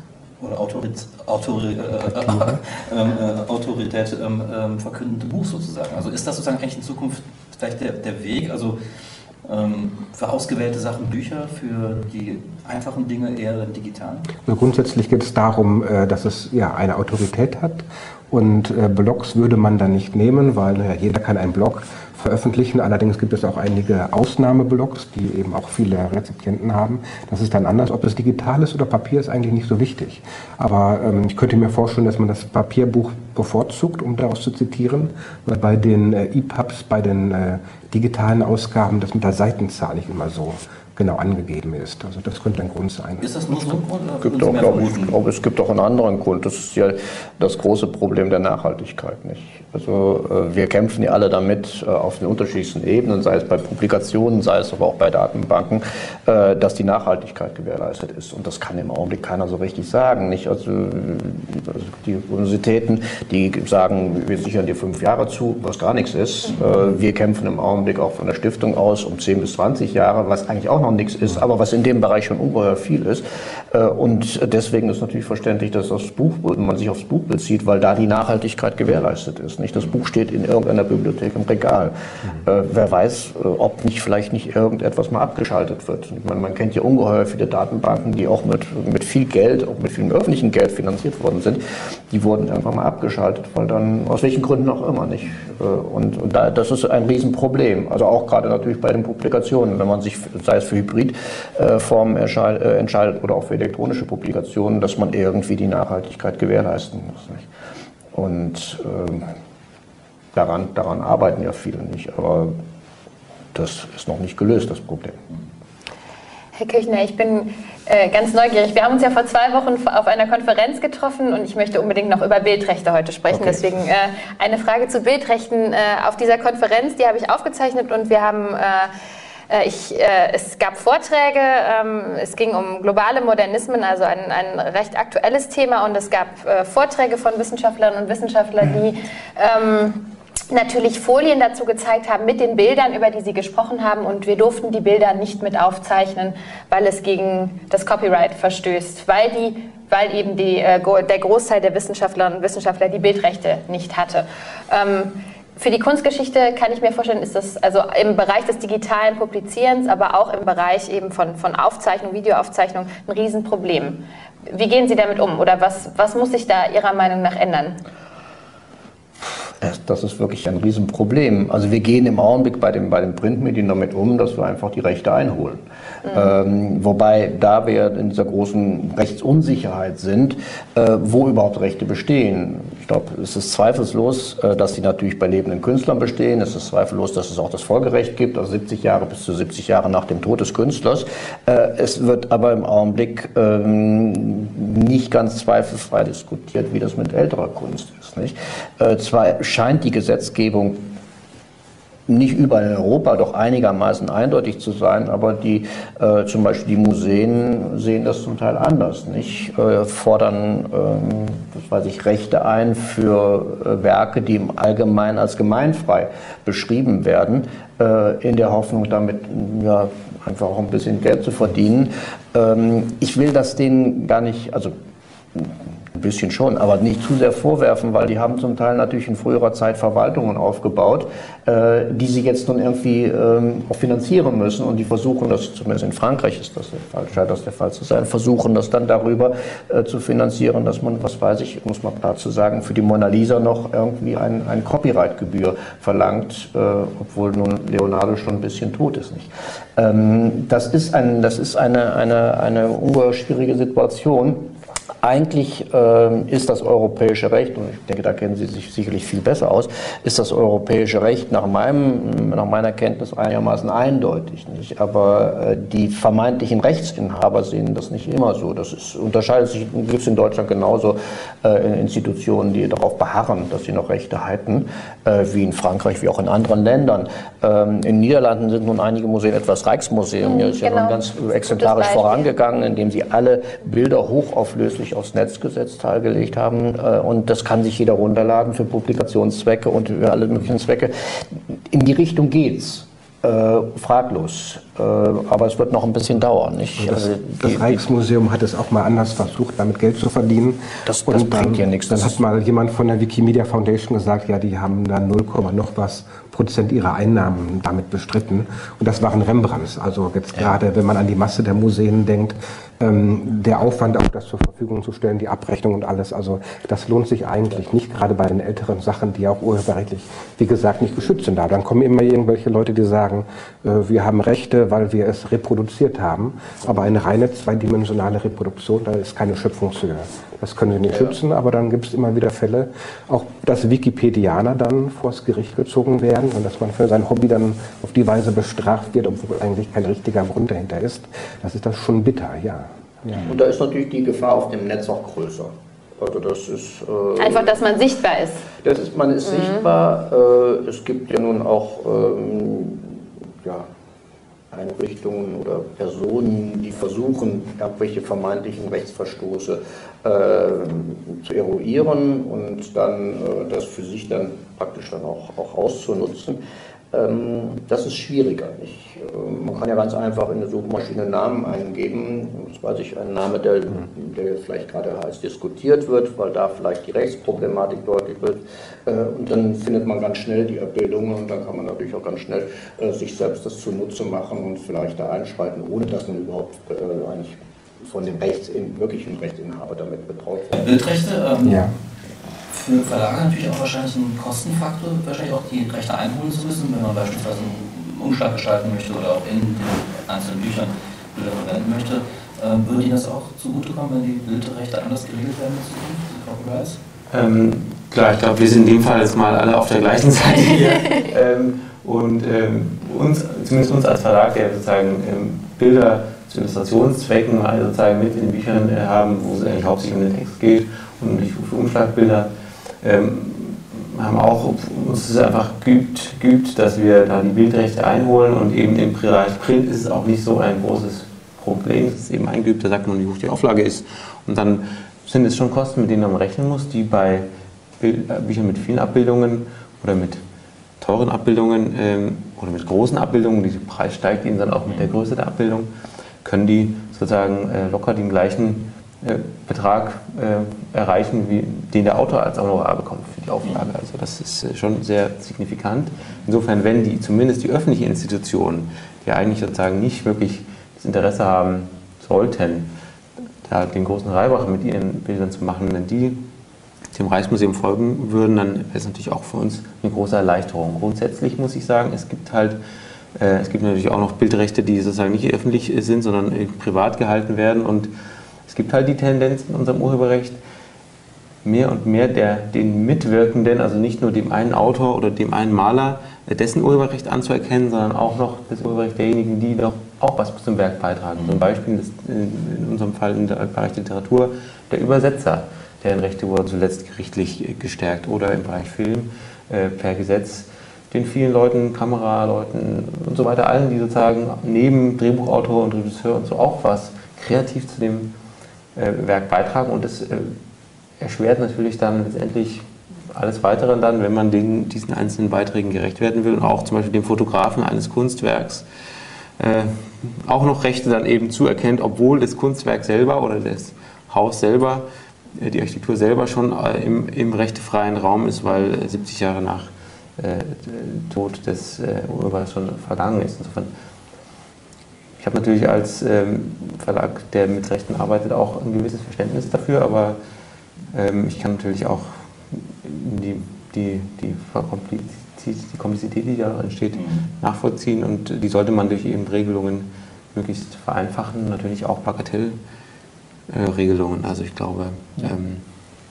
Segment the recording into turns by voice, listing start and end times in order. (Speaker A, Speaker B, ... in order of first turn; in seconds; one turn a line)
Speaker A: 0.4-8.8
Speaker A: 9.4-14.3
Speaker B: 14.4-43.3
Speaker A: 43.2-45.2
Speaker C: 44.2-107.5
Speaker C: 108.1-109.3
Speaker C: 110.3-112.5
Speaker C: 113.5-115.2
Speaker D: 116.5-128.9
Speaker C: 123.3-123.6
Speaker D: 129.5-167.8
Speaker C: 169.2-200.8
Speaker C: 202.1-224.7
Speaker C: 225.3-254.5
Speaker C: 255.0-297.8
Speaker D: 280.2-282.2
Speaker B: 296.8-343.3
Speaker C: 300.8-302.2
Speaker C: 343.2-347.6
Speaker D: 347.2-348.4
Speaker C: 348.6-353.7
Speaker C: 354.5-366.4
Speaker C: 366.9-390.6
Speaker A: 390.5-391.7
Speaker B: 391.4-391.7
Speaker A: 392.5-406.8
Speaker E: 407.1-422.3
Speaker E: 422.8-437.2
Speaker E: 437.8-440.2
Speaker E: 440.8-445.7
Speaker E: 446.2-462.7
Speaker E: 463.4-466.2
Speaker E: 466.9-472.6
Speaker E: 473.1-477.9
Speaker E: 478.5-480.4
Speaker E: 481.4-508.1
Speaker A: 491.1-491.4
Speaker E: 508.8-510.4
Speaker E: 511.0-518.6
Speaker E: 519.4-524.8
Speaker E: 525.4-533.7
Speaker E: 535.2-540.2
Speaker E: 540.9-552.6
Speaker A: 546.9-547.2
Speaker E: 553.5-555.6